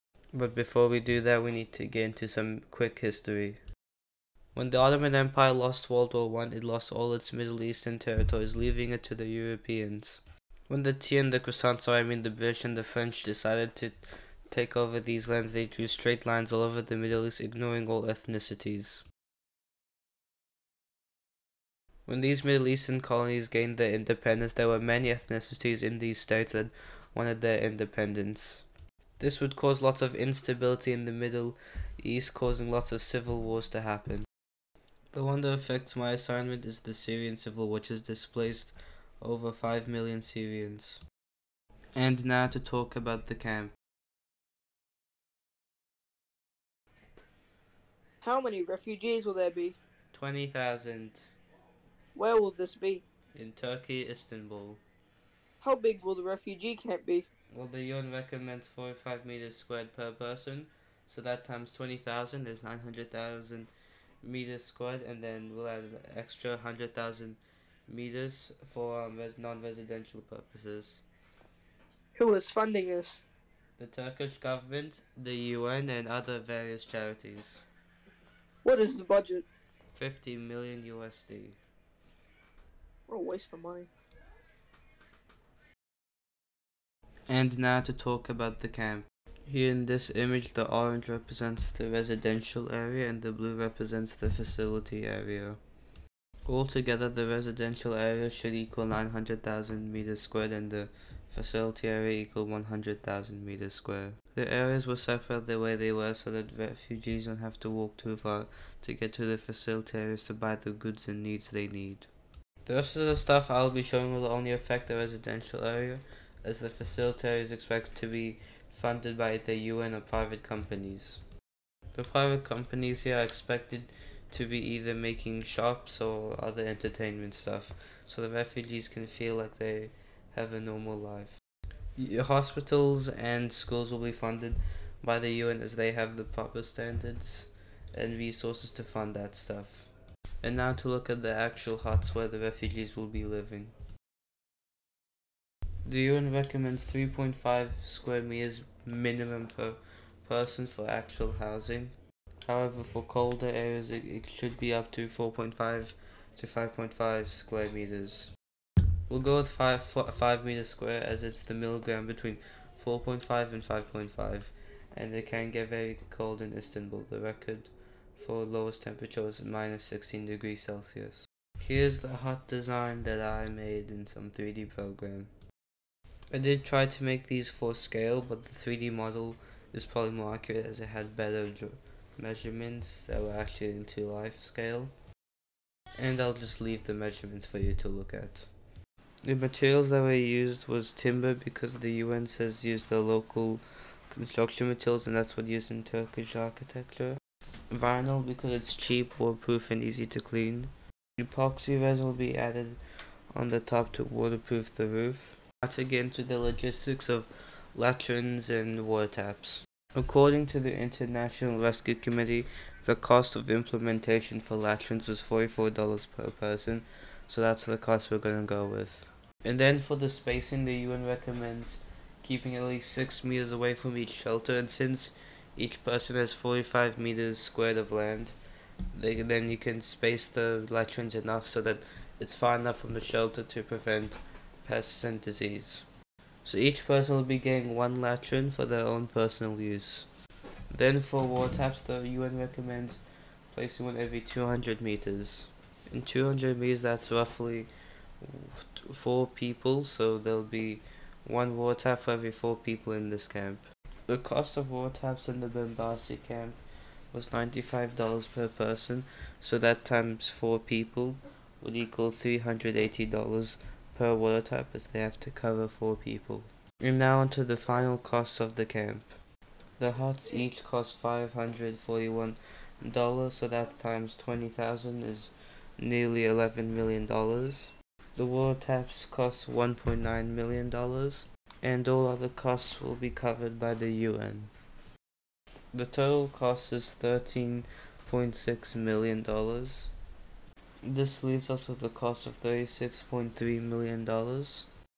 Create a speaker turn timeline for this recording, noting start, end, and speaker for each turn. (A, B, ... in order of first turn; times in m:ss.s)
0:00.3-0:03.6 A
0:04.5-0:19.0 A
0:22.0-0:28.7 A
0:29.2-0:34.3 A
0:35.1-0:41.0 A
0:41.9-0:43.7 A
0:48.2-0:49.8 B
0:50.1-0:51.3 A
0:52.1-0:53.0 B
0:53.3-0:54.8 A
0:55.6-0:57.3 B
0:57.5-1:03.7 A
1:04.2-1:11.0 A
1:12.1-1:13.2 B
1:13.8-1:17.6 A
1:18.6-1:19.4 B
1:19.9-1:21.6 A
1:23.1-1:23.9 B
1:27.3-1:35.6 A
1:36.4-1:52.1 A
1:52.6-2:01.2 A
2:01.9-2:11.4 A
2:12.0-2:19.9 A
2:20.4-2:23.7 A
2:25.8-2:38.3 A
2:39.1-2:55.3 A
2:56.3-3:04.9 A
3:06.0-3:08.5 A
3:09.2-3:48.3 A
3:48.9-3:55.8 A
3:56.4-4:00.1 A
4:00.7-4:07.7 A
4:08.2-4:16.6 A
4:17.1-4:29.1 A
4:29.8-4:44.5 A
4:45.7-4:49.9 A
4:50.8-4:54.7 A